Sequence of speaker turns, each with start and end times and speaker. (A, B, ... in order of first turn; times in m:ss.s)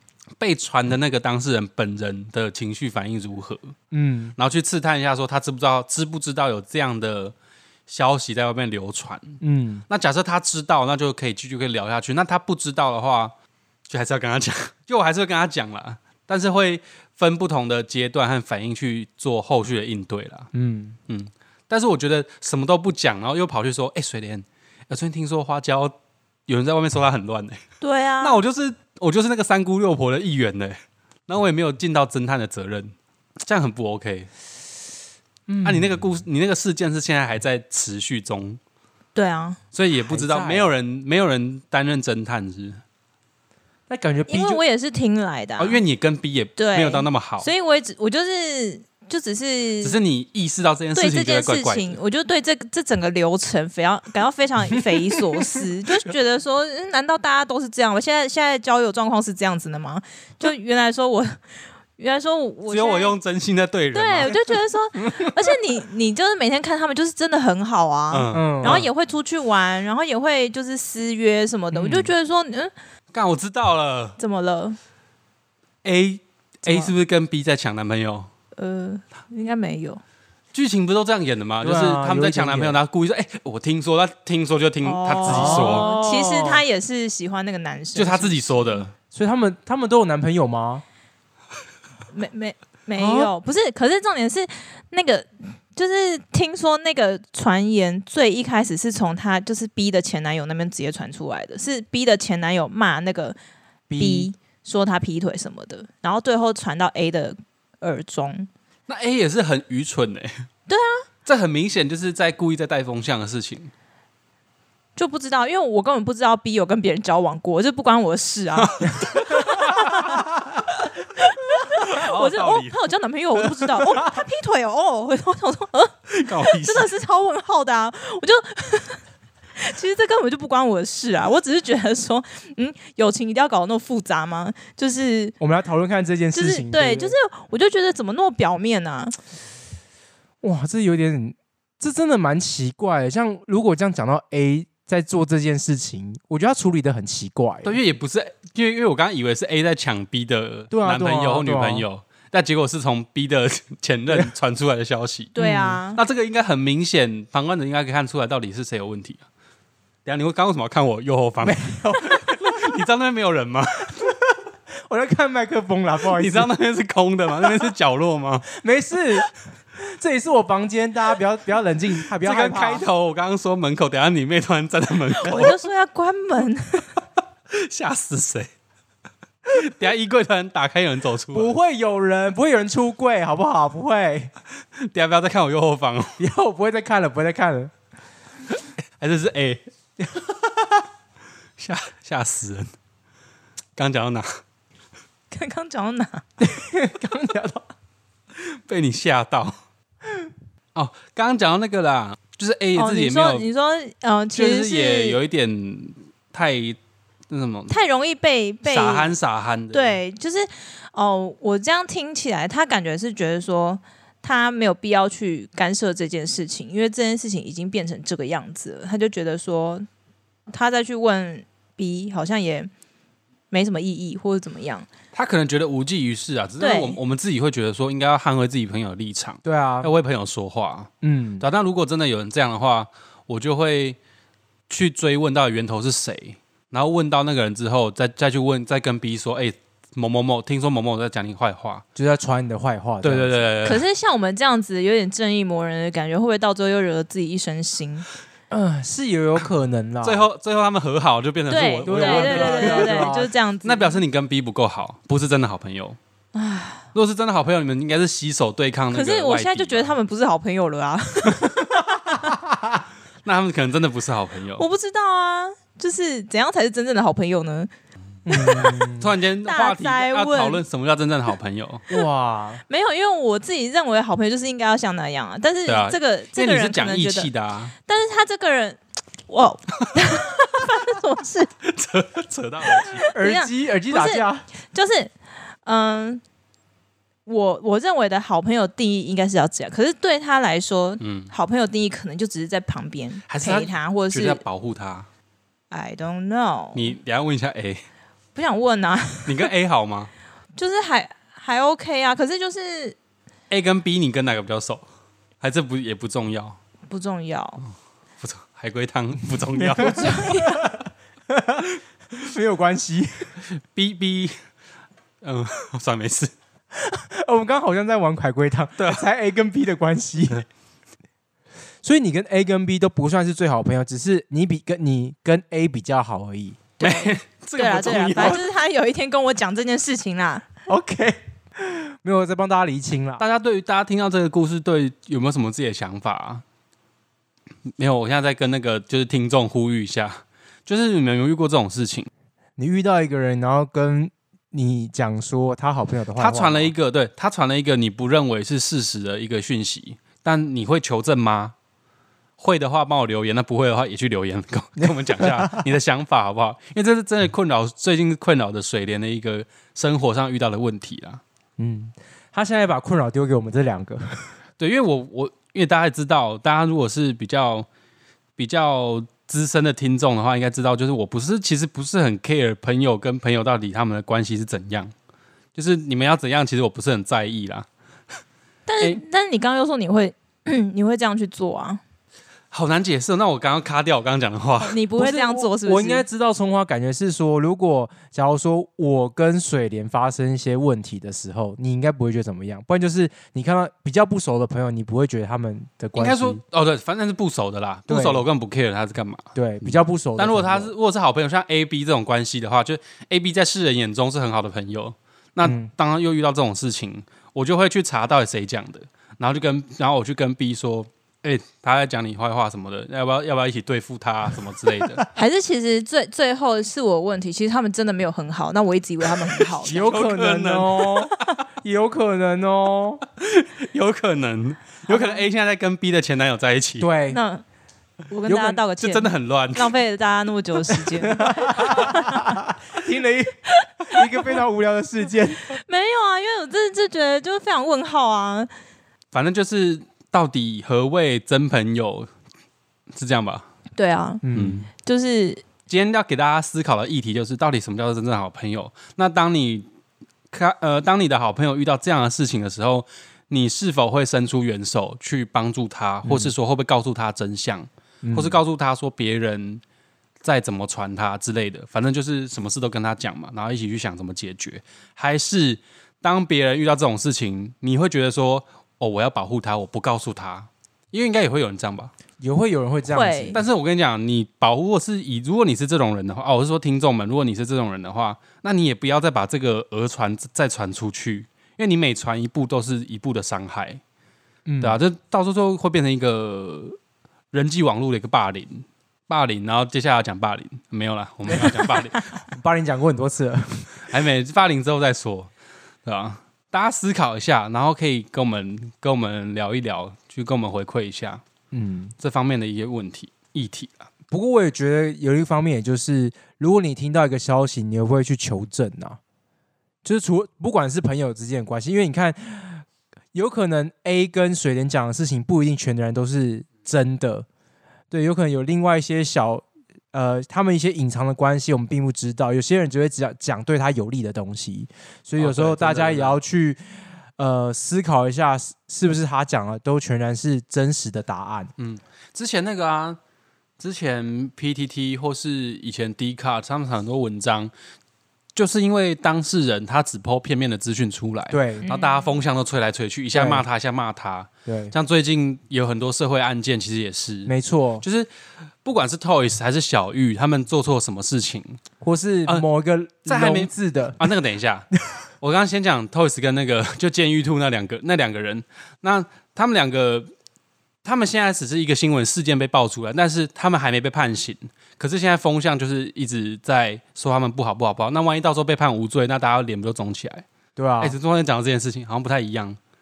0:00.4-0:03.7 A
0:03.9-0:04.3 B
0:04.4-0:07.3 A
0:07.9-0:13.3 A
0:09.4-0:09.8 B
0:13.9-0:20.5 A
0:20.5-0:21.0 B
0:21.1-0:25.9 A
0:26.5-0:27.6 A
0:27.8-0:28.4 C
0:28.2-0:34.3 A
0:35.5-0:36.1 B
0:35.6-0:38.6 A
0:39.1-0:39.6 C
0:39.7-0:42.8 A
0:40.1-0:40.7 B
0:43.9-0:44.6 B
0:44.3-0:45.8 C
0:45.6-0:47.5 A
0:46.6-0:50.0 C
0:49.8-0:52.0 A
0:50.9-1:01.4 C
1:02.0-1:03.2 C
1:02.7-1:04.4 A
1:03.9-1:12.7 C
1:08.1-1:08.9 A
1:08.3-1:08.8 B
1:11.7-1:12.1 B
1:13.1-1:14.2 A
1:14.2-1:14.8 C
1:15.8-1:18.3 A
1:16.6-1:16.9 C
1:18.5-1:20.0 C
1:20.5-1:25.8 A
1:21.6-1:22.8 B
1:24.8-1:28.8 C
1:25.2-1:26.6 B
1:27.9-1:28.9 A
1:29.1-1:30.8 B
1:32.1-1:43.4 C
1:33.0-1:33.3 B
1:43.9-1:44.3 B
1:44.0-1:48.5 C
1:48.9-1:50.5 A
1:50.7-1:51.0 C
1:51.2-1:53.7 A
1:55.0-2:00.2 C
1:58.6-2:00.0 A
2:01.2-2:09.0 C
2:01.7-2:02.7 A
2:06.1-2:06.9 A
2:09.6-2:15.3 C
2:15.4-2:17.1 B
2:16.3-2:19.1 C
2:20.4-2:27.8 B
2:27.6-2:35.3 A
2:30.7-2:31.8 B
2:35.3-2:36.0 C
2:35.4-2:35.8 B
2:35.9-2:39.2 A
2:40.0-2:43.9 A
2:41.4-2:42.4 B
2:44.0-2:44.3 B
2:44.9-2:46.5 B
2:46.1-2:48.5 A
2:47.4-2:47.7 B
2:48.5-2:52.8 B
2:52.1-2:55.6 A
2:55.2-2:56.9 C
2:57.5-2:58.5 A
2:59.4-3:01.5 A
3:01.3-3:04.3 B
3:04.8-3:06.2 A
3:06.2-3:07.7 B
3:09.0-3:09.6 A
3:10.0-3:10.7 B
3:11.6-3:12.7 A
3:13.8-3:14.4 A
3:15.3-3:16.2 C
3:16.4-3:17.6 B
3:18.4-3:19.6 A
3:20.7-3:23.4 A
3:22.8-3:25.2 C
3:24.3-3:26.8 A
3:27.3-3:27.7 A
3:27.7-3:29.1 C
3:28.6-3:30.0 A
3:29.7-3:39.8 C
3:40.5-3:42.7 C
3:43.5-3:44.9 C
3:45.1-3:54.0 A
3:46.6-3:47.0 C
3:49.4-3:49.9 B
3:51.0-3:51.4 B
3:54.7-4:01.8 A
4:02.0-4:03.5 B
4:03.0-4:03.8 A
4:03.6-4:08.1 C
4:08.5-4:10.3 B
4:10.0-4:16.0 A
4:11.5-4:14.0 C
4:11.8-4:13.3 B
4:16.3-4:16.8 C
4:16.9-4:19.9 A
4:18.9-4:22.2 C
4:22.1-4:22.8 B
4:23.2-4:24.6 A
4:24.6-4:27.7 C
4:28.2-4:29.1 B
4:28.3-4:28.9 C
4:29.0-4:31.8 A
4:29.4-4:30.6 C
4:31.9-4:32.6 B
4:32.7-4:37.3 C
4:35.6-4:37.7 A
4:37.8-4:41.5 C
4:41.6-4:43.0 A
4:42.8-4:45.1 C
4:43.1-4:44.4 B
4:45.6-4:46.2 C
4:47.2-4:54.4 C
4:51.0-4:51.3 A
4:53.3-4:55.1 A
4:55.7-4:57.0 C
4:56.7-4:57.8 A
4:58.3-4:59.5 C
4:59.2-5:00.1 A
5:00.6-5:03.0 C
5:03.5-5:04.8 A
5:05.4-5:06.6 A
5:06.9-5:07.6 C
5:08.2-5:10.1 A
5:09.6-5:13.3 B
5:09.8-5:10.7 C
5:13.6-5:14.3 A
5:15.2-5:16.3 A
5:16.7-5:20.4 B
5:18.8-5:19.0 A
5:21.8-5:26.6 B
5:26.8-5:28.4 A
5:26.8-5:30.5 C
5:30.7-5:33.2 B
5:33.2-5:36.4 A
5:37.7-5:42.1 A
5:42.6-5:46.7 B
5:46.2-5:51.5 A
5:52.4-6:01.2 A
5:54.8-5:55.6 B
6:01.6-6:04.3 B
6:04.6-6:07.7 A
6:08.4-6:14.9 A
6:15.5-6:17.7 A
6:18.7-6:21.8 C
6:22.5-6:24.8 A
6:24.6-6:26.0 C
6:25.0-6:36.4 B
6:36.0-6:55.0 A
6:37.9-6:38.2 B
6:39.3-6:40.7 B
6:45.4-6:45.7 B
6:54.6-6:55.1 B
6:55.1-6:59.9 C
6:59.6-7:03.0 B
6:59.7-7:01.1 A
7:03.2-7:06.9 A
7:06.8-7:07.2 B
7:07.1-7:07.4 C
7:08.1-7:12.4 C
7:08.3-7:08.6 B
7:08.8-7:09.7 A
7:11.1-7:15.4 B
7:15.5-7:18.5 C
7:19.1-7:22.1 A
7:22.9-7:23.4 A
7:23.8-7:24.2 C
7:24.2-7:24.7 B
7:24.3-7:24.7 A
7:24.8-7:25.4 C
7:25.7-7:29.7 A
7:30.3-7:39.6 A
7:36.0-7:36.3 B
7:38.0-7:38.4 B
7:40.2-7:51.9 A
7:52.2-7:53.4 B
7:52.9-7:53.4 C
7:53.3-8:03.8 A
8:04.4-8:04.8 B
8:04.6-8:06.8 A
8:07.3-8:12.1 A
8:11.3-8:13.8 B
8:13.9-8:15.3 A
8:15.8-8:21.2 A
8:21.5-8:21.9 B
8:22.0-8:23.9 A
8:24.1-8:29.0 B
8:29.8-8:37.2 B
8:37.9-8:46.6 B
8:45.2-8:46.2 A
8:47.2-8:51.5 B
8:51.6-8:53.0 A
8:53.6-8:57.5 A
8:58.3-9:07.3 A
9:01.3-9:01.7 B
9:01.6-9:02.1 C
9:03.1-9:03.4 B
9:04.5-9:04.7 B
9:07.2-9:07.8 B
9:07.8-9:08.1 A
9:08.6-9:11.6 A
9:11.8-9:14.1 B
9:13.0-9:20.1 A
9:20.8-9:30.2 A
9:30.6-9:31.0 B
9:30.8-9:32.6 A